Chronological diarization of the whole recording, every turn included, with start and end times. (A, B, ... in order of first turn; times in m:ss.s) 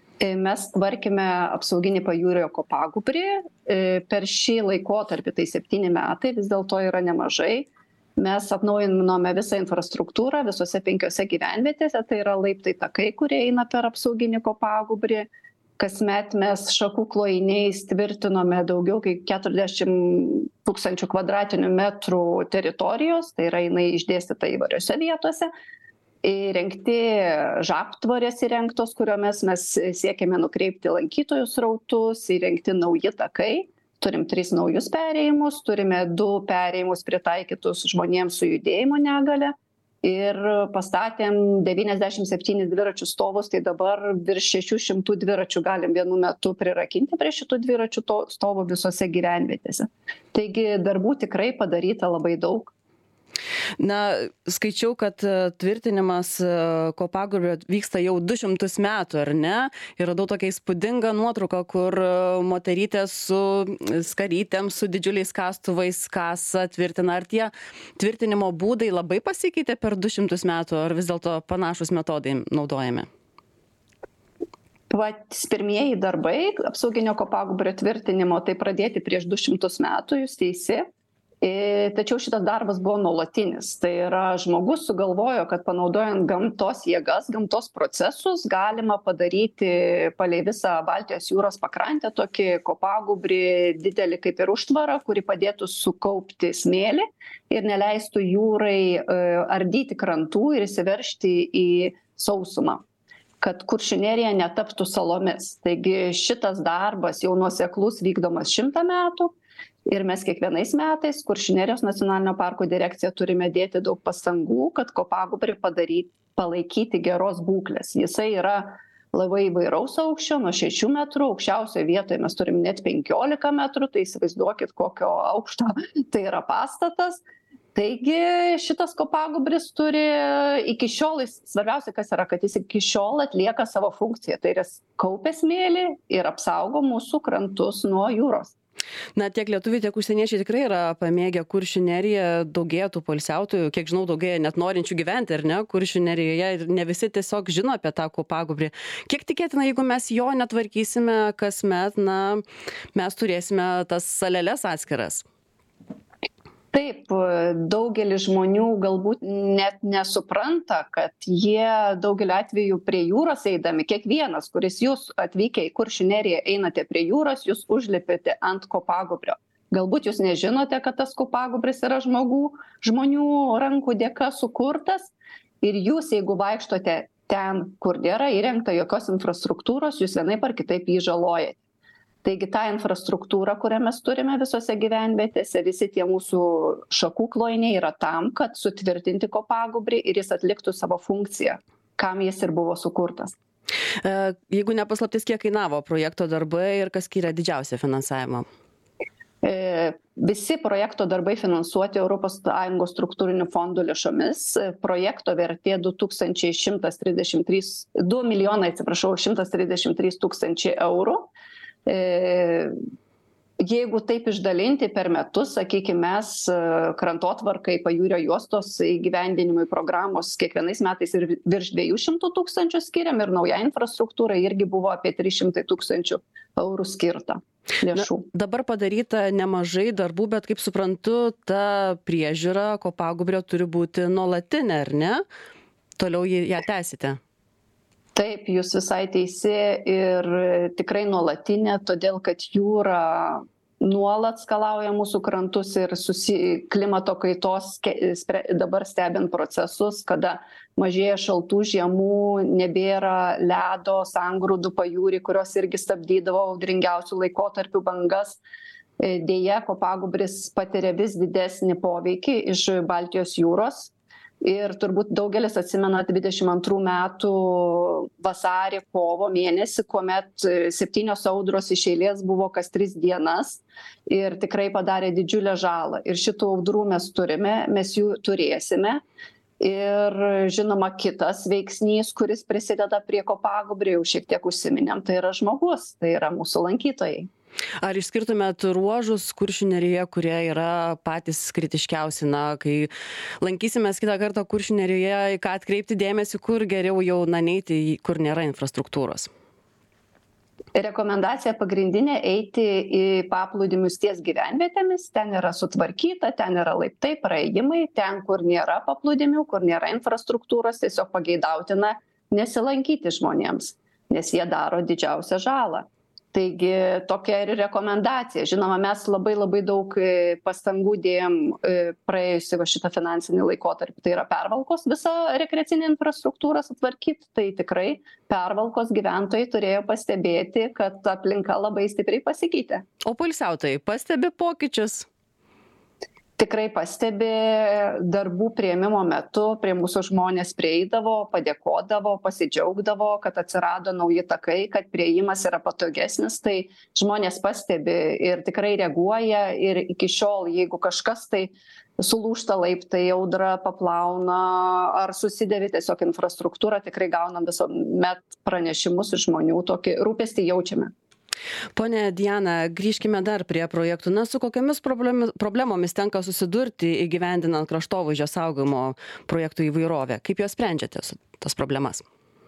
0:00.2-0:15.3 A
0:15.8-0:25.5 A
0:26.2-0:52.7 A
0:53.8-1:13.1 B
1:14.9-1:20.9 A
1:21.4-1:42.8 A
1:43.4-1:49.3 A
1:49.9-2:07.2 A
2:07.7-2:18.5 A
2:19.1-2:32.4 B
2:32.9-2:35.2 B
2:36.7-3:01.6 A
3:02.2-3:13.4 A
3:14.0-3:18.4 B
3:19.4-3:31.3 A
3:31.8-3:32.7 A
3:33.6-3:48.2 A
3:47.9-3:55.2 B
3:56.0-3:57.2 B
3:58.1-4:18.4 A
4:19.0-4:39.0 A
4:39.6-4:47.3 A
4:47.8-4:59.3 B
5:00.7-5:32.8 A
5:33.0-5:35.1 B
5:36.4-6:00.9 A
6:01.8-6:12.0 B